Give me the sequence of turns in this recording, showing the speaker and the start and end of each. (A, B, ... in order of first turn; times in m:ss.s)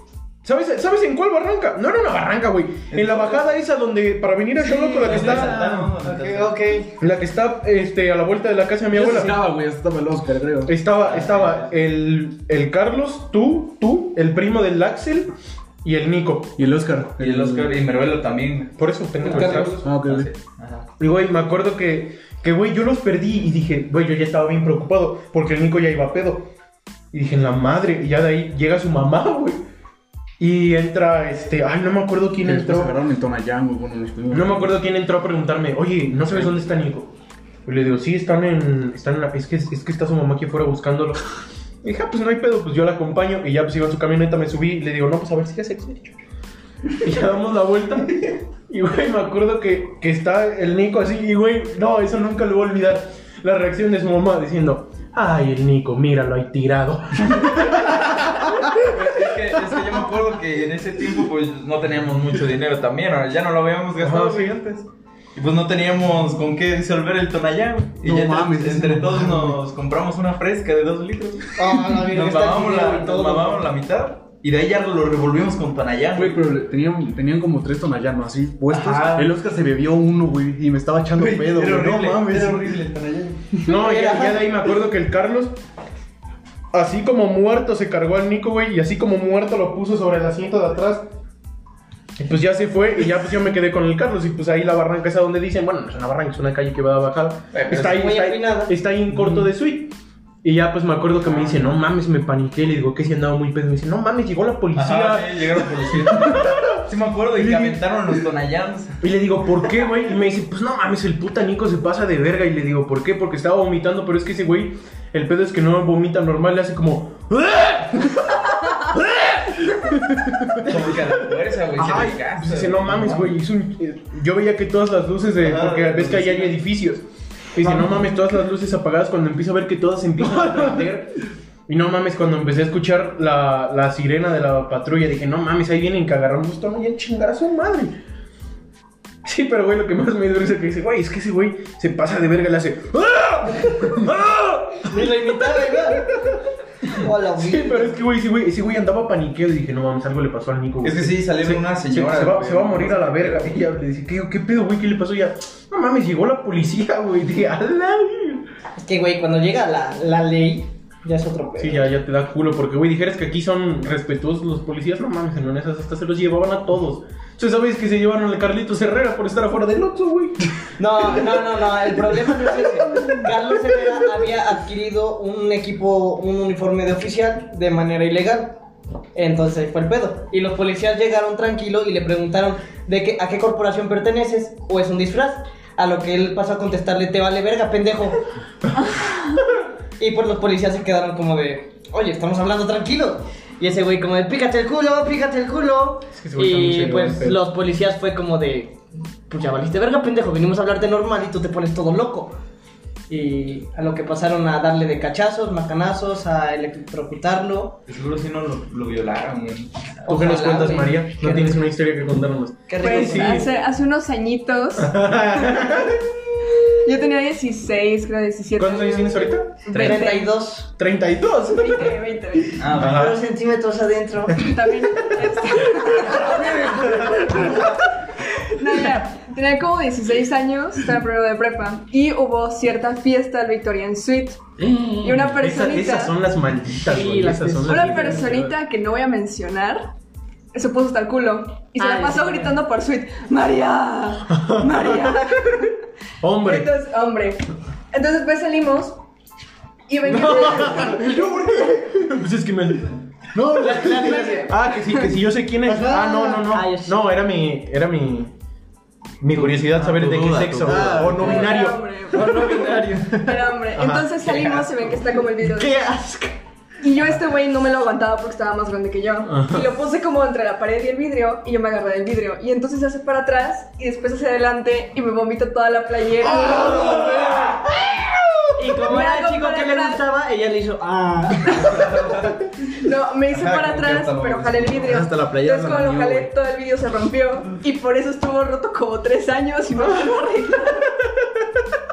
0:00.4-0:05.6 A
0:02.9-0:03.4 B
0:04.7-0:05.9 C
0:04.9-0:06.6 B
0:05.2-0:07.0 D
0:07.0-0:09.4 A
0:08.9-0:10.7 C
0:10.6-0:15.3 A
0:11.0-0:11.7 B
0:15.8-0:16.6 A
0:16.6-0:17.7 C
0:17.2-0:20.9 B
0:18.8-0:19.8 A
0:19.8-0:20.3 C
0:21.0-0:26.5 A
0:27.1-0:29.6 A
0:30.4-0:33.0 A
0:32.4-0:34.8 C
0:34.3-0:37.1 A
0:37.6-0:41.2 A
0:41.8-0:46.2 A
0:47.0-0:58.9 A
0:58.8-1:04.8 B
1:04.0-1:04.6 A
1:05.4-1:16.5 B
1:08.0-1:09.6 C
1:11.6-1:13.6 D
1:16.1-1:22.6 C
1:18.7-1:19.3 B
1:21.2-1:23.4 B
1:21.4-1:22.6 A
1:23.6-1:25.6 A
1:23.6-1:24.5 D
1:26.7-1:31.1 A
1:32.2-1:46.8 A
1:37.5-1:38.0 B
1:37.8-1:38.7 D
1:41.3-1:41.6 B
1:44.7-1:49.0 B
1:49.0-2:00.0 A
2:00.1-2:00.6 C
2:00.6-2:03.4 B
2:01.7-2:17.9 A
2:05.4-2:06.6 B
2:19.2-2:26.5 A
2:24.8-2:26.2 D
2:26.8-2:28.0 D
2:27.4-2:38.5 A
2:30.8-2:33.6 B
2:38.8-2:41.9 D
2:41.6-2:50.4 A
2:50.8-2:58.6 D
2:59.1-3:08.2 D
3:10.0-3:22.4 D
3:16.1-3:17.4 A
3:23.1-3:27.8 D
3:27.9-3:30.1 B
3:30.0-3:31.6 D
3:30.1-3:33.5 A
3:32.7-3:33.5 D
3:32.8-3:35.7 E
3:34.8-3:36.1 A
3:36.6-3:40.3 E
3:38.6-3:40.1 A
3:39.7-3:40.7 D
3:39.7-3:40.1 B
3:40.8-3:42.0 A
3:41.5-3:42.6 E
3:42.6-3:43.2 B
3:42.7-3:43.2 A
3:42.8-3:44.5 D
3:44.4-3:47.4 E
3:46.2-3:47.8 D
3:46.4-3:47.5 A
3:48.4-3:54.4 E
3:54.6-3:55.3 D
3:55.0-3:56.1 E
3:55.3-3:58.5 A
3:56.8-3:58.3 D
3:57.6-3:59.8 E
4:00.5-4:05.8 E
4:01.8-4:02.6 D
4:04.3-4:05.4 A
4:06.2-4:06.7 A
4:06.4-4:09.0 E
4:09.9-4:11.3 E
4:10.0-4:18.3 A
4:10.4-4:11.8 D
4:13.5-4:14.6 D
4:15.6-4:17.0 D
4:19.2-4:21.8 A
4:19.3-4:20.9 B
4:20.6-4:21.4 C
4:20.6-4:21.5 D
4:21.1-4:25.8 E
4:22.1-4:23.5 D
4:23.7-4:24.2 A
4:25.4-4:26.4 D
4:26.8-4:37.4 E
4:29.3-4:29.7 A
4:36.6-4:37.4 A
4:36.9-4:37.1 D
4:38.6-4:42.0 D
4:38.8-4:40.0 E
4:41.5-4:42.0 E
4:41.6-4:42.5 B
4:42.6-4:50.9 E
4:43.3-4:46.3 B
4:51.0-4:51.6 A